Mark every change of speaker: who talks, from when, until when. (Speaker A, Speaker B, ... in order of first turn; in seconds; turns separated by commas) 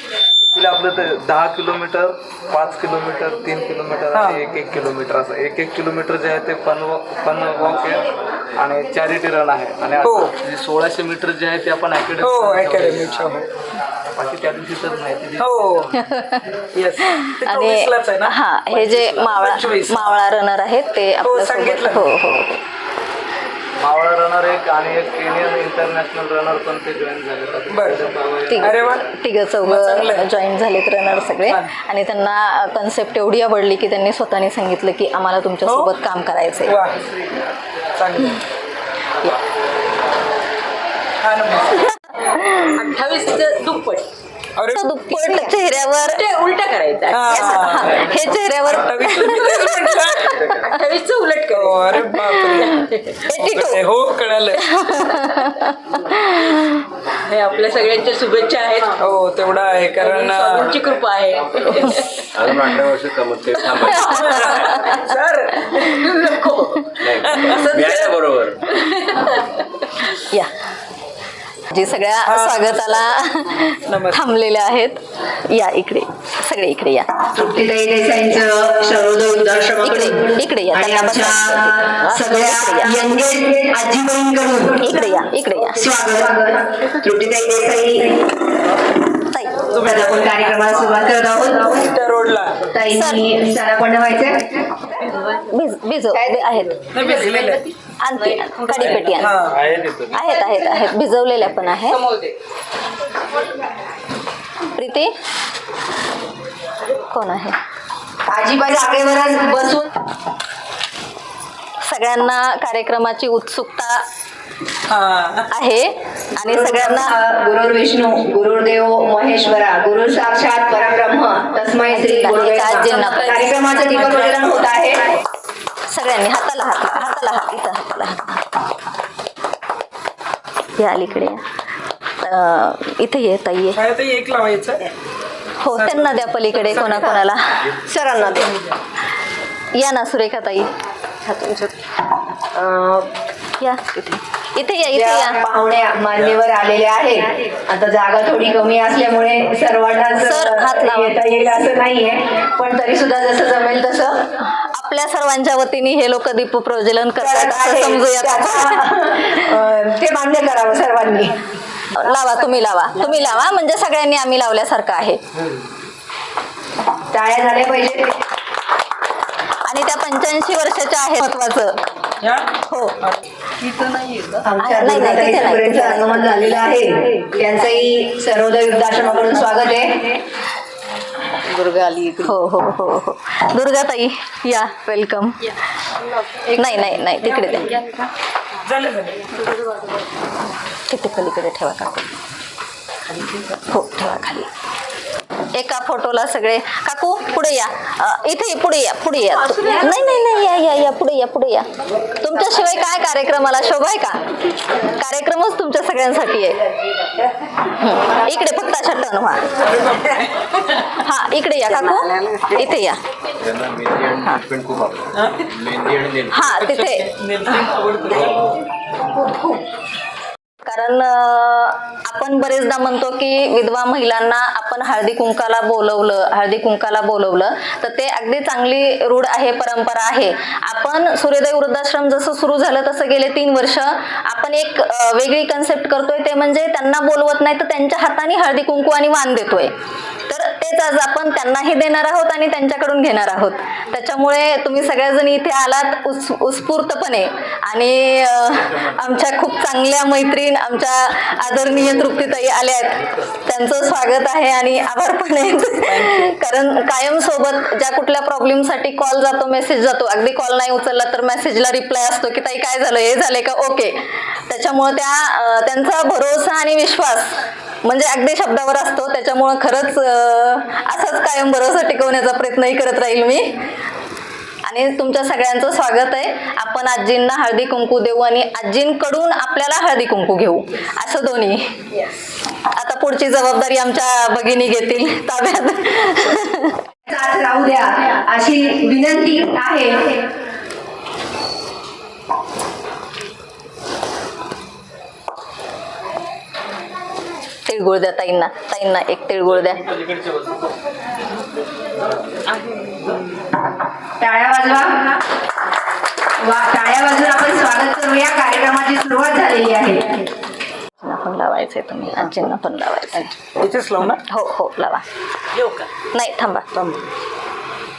Speaker A: 0.4-13.3, Speaker B: 4.1-4.4, Speaker B: 10.0-10.3, Speaker B: 12.2-13.4, Speaker A: 14.1-15.9, Speaker B: 15.4-15.9, Speaker C: 16.0-16.4, Speaker B: 16.7-20.2, Speaker C: 17.1-22.6, Speaker B: 21.2-22.1, Speaker A: 23.8-29.0, Speaker B: 27.7-28.0, Speaker C: 28.5-36.8, Speaker B: 28.6-29.0, Speaker B: 29.6-30.3, Speaker B: 31.4-31.7, Speaker B: 35.6-35.9, Speaker B: 36.6-37.0, Speaker B: 38.0-38.4, Speaker B: 41.2-41.9, Speaker D: 42.6-44.1, Speaker B: 44.6-44.8, Speaker C: 44.7-46.2, Speaker D: 46.0-47.8, Speaker B: 47.1-50.4, Speaker C: 47.3-50.3, Speaker D: 50.4-53.2, Speaker B: 51.5-52.8, Speaker C: 53.2-53.8, Speaker B: 53.4-54.6, Speaker C: 54.6-56.8, Speaker D: 57.1-59.0, Speaker B: 59.0-60.8, Speaker D: 60.0-62.2, Speaker E: 62.3-64.7, Speaker C: 63.9-64.8, Speaker B: 64.0-65.7, Speaker D: 64.7-65.0, Speaker D: 65.6-68.0, Speaker E: 67.0-68.6, Speaker D: 68.8-69.5, Speaker C: 71.7-77.1, Speaker B: 72.2-72.8, Speaker B: 73.9-74.2, Speaker F: 77.3-85.0, Speaker C: 79.8-83.0, Speaker C: 84.8-85.8, Speaker F: 85.8-88.3, Speaker C: 89.3-89.6, Speaker B: 89.7-90.8, Speaker F: 89.8-92.0, Speaker B: 91.6-92.6, Speaker F: 92.7-94.9, Speaker C: 92.9-93.3, Speaker C: 95.5-96.8, Speaker F: 96.1-96.7, Speaker D: 96.9-99.3, Speaker B: 96.9-97.6, Speaker C: 98.0-99.3, Speaker A: 98.8-100.2, Speaker B: 99.2-99.6, Speaker C: 100.1-102.0, Speaker D: 100.2-100.8, Speaker D: 101.8-102.3, Speaker C: 104.8-105.1, Speaker C: 107.1-107.6, Speaker F: 108.3-109.9, Speaker C: 111.8-114.0, Speaker B: 114.9-115.5, Speaker C: 115.5-117.1, Speaker F: 116.5-125.2, Speaker C: 121.9-124.3, Speaker C: 125.9-128.4, Speaker C: 130.8-131.4, Speaker C: 132.2-133.8, Speaker B: 133.7-134.8, Speaker C: 135.6-137.7, Speaker B: 135.7-137.0, Speaker F: 136.8-137.2, Speaker F: 137.8-138.5, Speaker C: 139.7-140.7, Speaker D: 141.2-141.7, Speaker F: 142.6-143.0, Speaker C: 143.6-145.4, Speaker F: 144.9-154.2, Speaker C: 150.2-151.2, Speaker C: 154.5-159.3, Speaker F: 157.2-161.4, Speaker C: 161.9-165.2, Speaker F: 167.1-168.2, Speaker C: 169.7-171.8, Speaker B: 172.2-173.2, Speaker C: 172.7-172.9, Speaker D: 173.6-174.5, Speaker F: 174.4-180.2, Speaker C: 174.6-176.6, Speaker D: 181.4-182.3, Speaker C: 182.2-185.4, Speaker D: 186.4-188.1, Speaker C: 186.6-187.7, Speaker B: 188.6-189.2, Speaker D: 189.3-189.8, Speaker C: 190.9-192.1, Speaker C: 193.7-194.5, Speaker C: 195.5-201.7, Speaker C: 202.2-204.2, Speaker C: 205.0-206.6, Speaker C: 207.8-209.4, Speaker B: 209.7-210.3, Speaker C: 210.9-213.0, Speaker D: 211.7-212.8, Speaker E: 213.4-216.5, Speaker C: 216.3-217.1, Speaker B: 216.5-218.3, Speaker E: 218.1-218.4, Speaker C: 220.6-239.7, Speaker C: 240.3-273.6, Speaker B: 255.9-256.3, Speaker C: 274.7-281.7, Speaker C: 282.7-286.8, Speaker F: 287.1-290.2, Speaker C: 297.7-299.8, Speaker F: 304.2-305.2, Speaker F: 306.4-310.3, Speaker C: 311.0-313.3, Speaker B: 313.6-314.2, Speaker C: 314.3-315.0, Speaker C: 316.1-316.6, Speaker B: 316.7-317.0